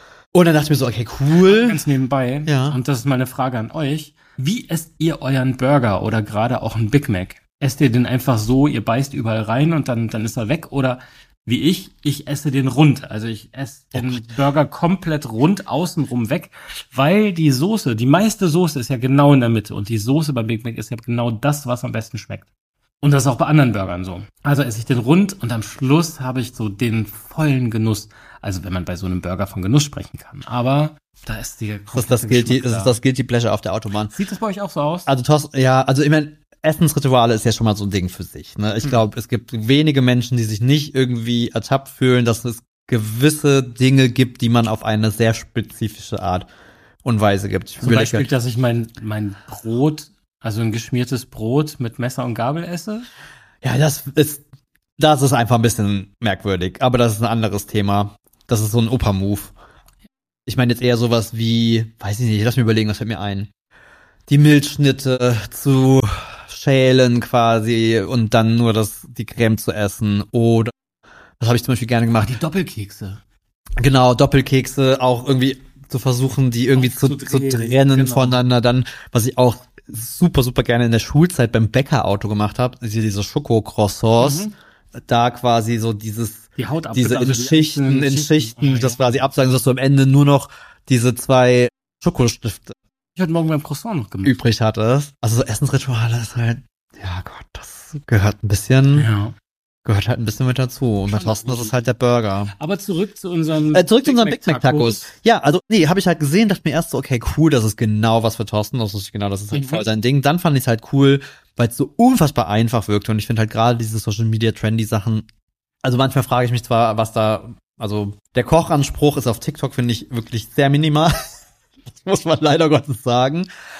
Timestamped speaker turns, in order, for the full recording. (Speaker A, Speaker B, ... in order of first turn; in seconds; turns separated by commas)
Speaker A: 0.3-1.8, Speaker B: 1.4-22.5, Speaker A: 2.5-2.8, Speaker A: 13.9-14.2, Speaker B: 23.0-33.0, Speaker A: 31.9-34.1, Speaker B: 34.1-35.1, Speaker A: 35.1-46.5, Speaker A: 47.0-48.3, Speaker B: 47.8-53.1, Speaker A: 53.6-54.4, Speaker A: 55.0-59.5, Speaker A: 60.5-63.5, Speaker A: 64.3-70.7, Speaker A: 71.4-72.3, Speaker B: 72.2-73.2, Speaker A: 73.8-92.8, Speaker B: 76.7-78.4, Speaker B: 84.2-84.5, Speaker B: 86.6-89.6, Speaker B: 93.2-94.4, Speaker A: 94.2-99.1, Speaker B: 99.0-99.3, Speaker A: 99.8-102.5, Speaker B: 101.1-101.8, Speaker B: 102.5-105.2, Speaker A: 103.7-115.3, Speaker B: 109.5-109.8, Speaker A: 115.8-123.5